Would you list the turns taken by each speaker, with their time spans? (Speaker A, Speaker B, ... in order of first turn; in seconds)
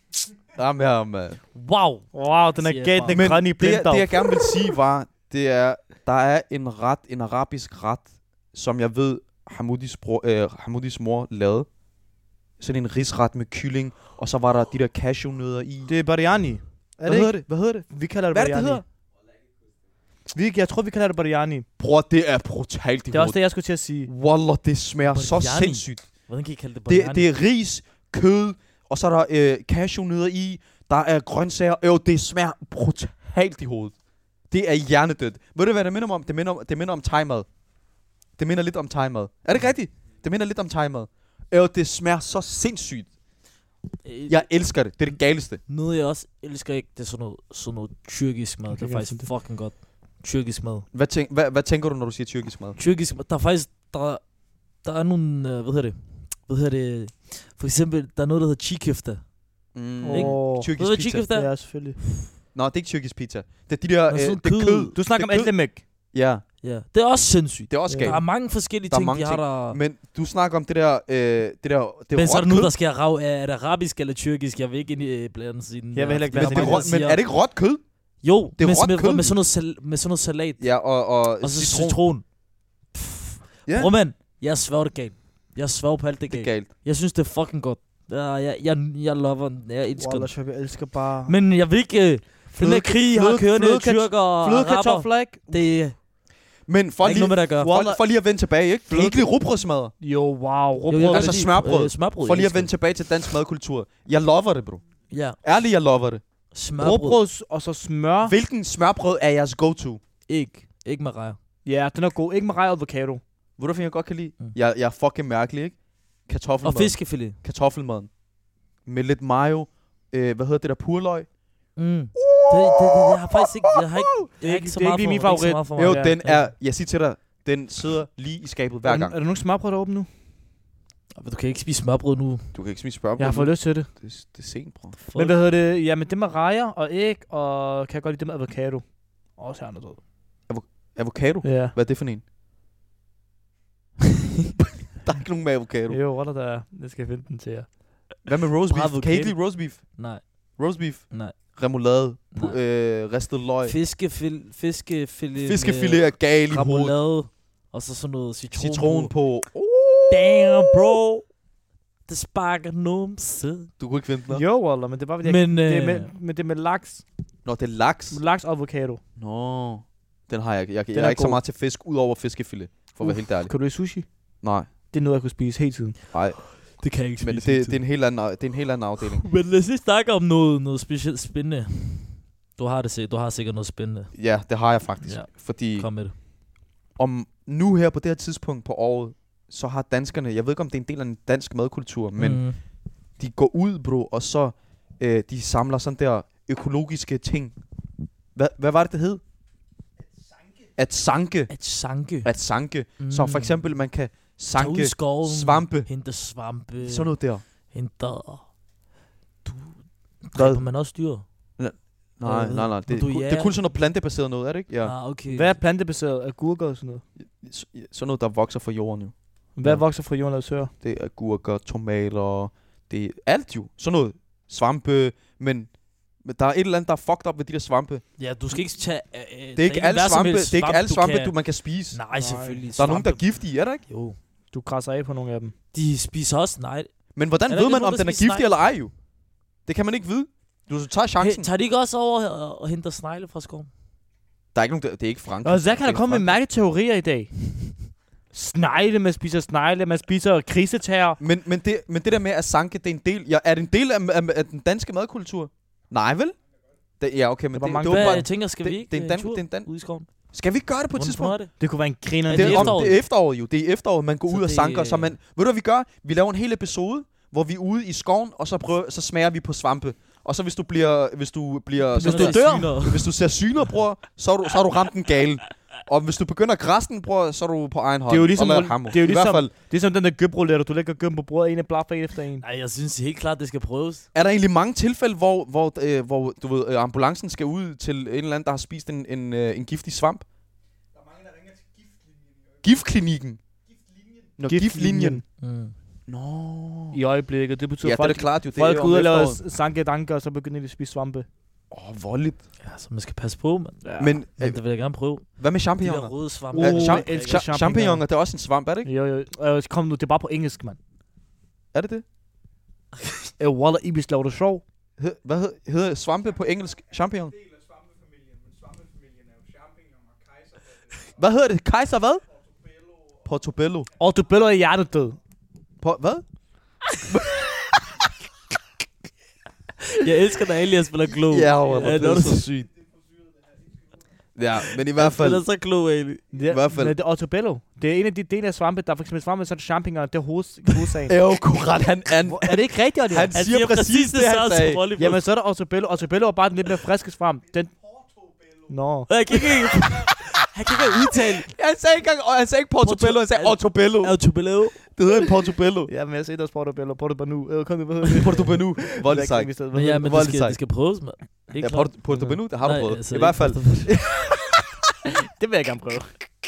Speaker A: 0.5-1.4, 3.1-11.7, 12.6-15.9, 17.0-18.8, 21.8-23.4, 24.1-26.1, 26.9-33.9, 34.5-37.5, 38.4-43.1, 44.3-45.6, 50.9-52.8, 59.7-61.2, 62.5-65.5, 66.1-66.4, 67.7-72.7, 76.3-77.8, 78.6-79.4, 80.6-82.0, 83.7-83.9, 86.3-86.7, 96.7-99.9, 101.1-104.8, 105.4-106.2, 108.2-110.0, 113.6-118.1, 118.9-121.3, 122.1-124.3, 125.8-129.2, 132.5-134.9, 140.5-142.2, 144.6-146.0, 148.2-153.7, 155.4-156.9, 158.5-161.0, 163.8-164.4, 167.4-168.2, 169.2-173.5, 174.4-174.7, 176.1-179.2, 184.1-185.9, 186.9-192.4, 193.2-197.5, 198.3-199.2, 200.8-201.5, 202.2-205.9, 206.8-207.4, 210.3-210.6, 211.6-214.9, 217.2-219.8, 220.8-225.7, 226.2-228.0, 229.6-232.0, 232.8-233.8, 237.1-238.9, 239.6-241.5, 244.5-246.4, 251.2-256.4, 257.0-259.7, 260.2-261.4, 262.3-279.5, 284.1-290.2, 292.6-293.4, 294.4-295.2, 296.1-297.0, 297.8-299.4, 301.7-302.4, 304.0-304.6, 305.4-308.9, 311.7-312.0, 315.0-317.4, 321.1-322.2, 323.2-323.9, 325.8-326.2, 327.1-327.4, 331.1-332.7, 334.4-335.4, 336.5-336.9, 341.1-344.9, 350.9-354.2, 354.8-355.9, 358.1-360.6, 361.6-364.1
Speaker B: 1.5-3.2, 25.0-27.3, 44.0-44.5, 45.7-50.9, 52.8-59.3, 60.1-61.6, 64.1-65.0, 66.6-69.8, 72.1-77.2, 78.2-80.7, 81.4-82.3, 82.9-90.3, 91.2-96.0, 97.0-97.8, 100.9-102.7, 105.1-105.4, 106.5-107.2, 110.3-111.4, 116.6-117.4, 121.8-126.5, 131.1-132.5, 135.0-135.4, 149.9-150.6, 151.1-151.3, 153.6-159.1, 160.1-161.3, 162.1-163.7, 165.2-166.1, 176.5-177.8, 179.0-184.1, 185.0-186.1, 192.2-192.6, 201.5-202.3, 203.0-203.6, 204.5-208.5, 209.4-211.2, 212.2-213.6, 214.8-215.6, 228.2-231.3, 231.9-233.3, 233.9-234.2, 235.7-236.9, 237.4-238.6, 241.2-243.7, 257.9-260.1, 260.9-261.5, 262.3-263.0, 264.3-265.1, 271.9-273.1, 282.4-284.0, 295.4-295.7, 302.6-305.3, 305.8-307.4, 329.9-332.5, 334.9-336.2, 343.3-345.2, 349.1-351.5, 352.8-354.8, 359.7-364.0
Speaker C: 2.1-4.3, 15.9-18.8, 20.3-21.6, 23.1-24.1, 48.7-49.3, 60.0-60.8, 61.3-62.0, 64.9-65.8, 67.9-68.2, 75.9-76.9, 90.0-91.3, 92.5-95.5, 97.6-98.0, 98.9-99.2, 100.0-101.4, 106.8-108.4, 111.6-113.2, 124.4-126.1, 128.8-130.1, 133.2-133.9, 135.1-140.0, 141.4-141.8, 145.9-147.8, 148.7-149.3, 164.3-167.0, 168.1-169.0, 170.9-171.4, 173.0-174.1, 174.9-176.0, 215.3-217.0, 219.6-220.7, 232.1-232.7, 234.5-235.5, 245.4-247.8, 248.3-251.2, 257.5-258.3, 261.6-262.8, 272.0-272.7, 278.1-282.4, 294.4-295.2, 296.9-301.3, 303.9-304.1, 306.5-308.0, 308.8-310.8, 313.4-314.6, 324.0-325.2, 336.3-341.2, 342.2-343.5, 345.0-347.7, 348.7-349.1, 355.9-360.1, 365.4-366.2